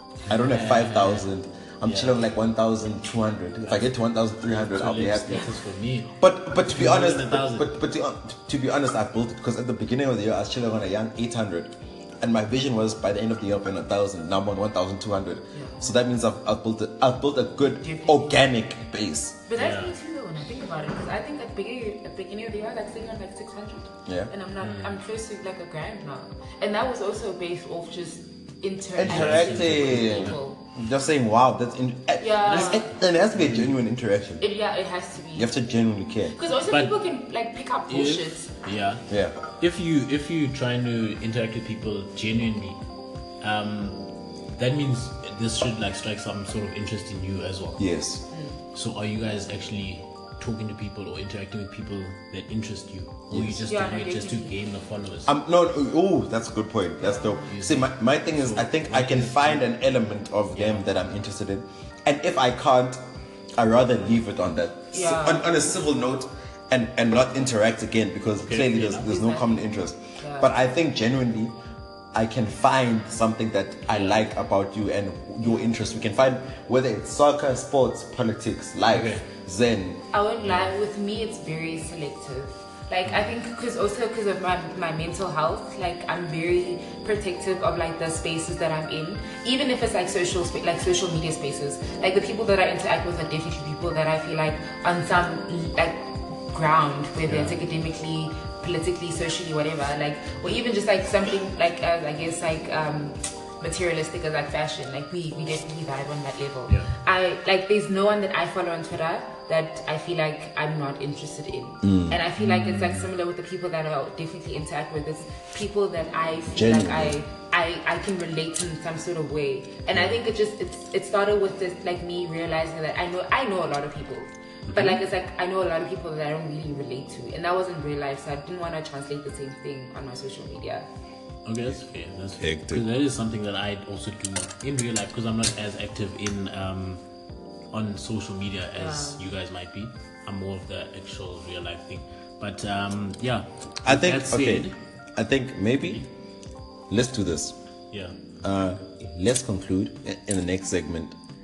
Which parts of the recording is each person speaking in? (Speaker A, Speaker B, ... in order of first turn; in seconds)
Speaker A: 0.3-5.5, 6.2-19.4, 24.1-24.3, 29.0-34.4, 35.4-36.4, 39.1-39.4, 47.8-48.2, 53.3-53.6, 55.3-63.0, 63.6-71.5, 72.1-80.0, 111.8-112.2, 116.5-117.2, 132.4-132.9, 143.8-146.0, 146.9-147.6, 148.4-151.2
Speaker B: 0.3-1.3, 1.8-2.3, 4.5-7.8, 19.6-19.9, 24.6-25.0, 29.1-30.4, 32.5-33.8, 36.7-37.0, 37.9-39.1, 39.6-42.8, 43.4-47.9, 48.7-55.3, 57.5-59.7, 60.5-60.9, 68.4-69.1, 73.9-74.2, 78.9-79.2, 97.3-97.6, 106.7-106.9, 112.4-113.1, 119.9-120.2, 124.7-125.0, 131.4-137.0, 137.7-144.8, 147.9-148.2
Speaker C: 15.5-15.8, 17.8-18.4, 19.5-30.6, 32.2-32.9, 34.4-35.5, 36.4-38.5, 48.3-48.6, 53.7-54.6, 57.0-57.5, 64.9-65.6, 68.8-70.5, 80.1-130.9, 138.8-139.2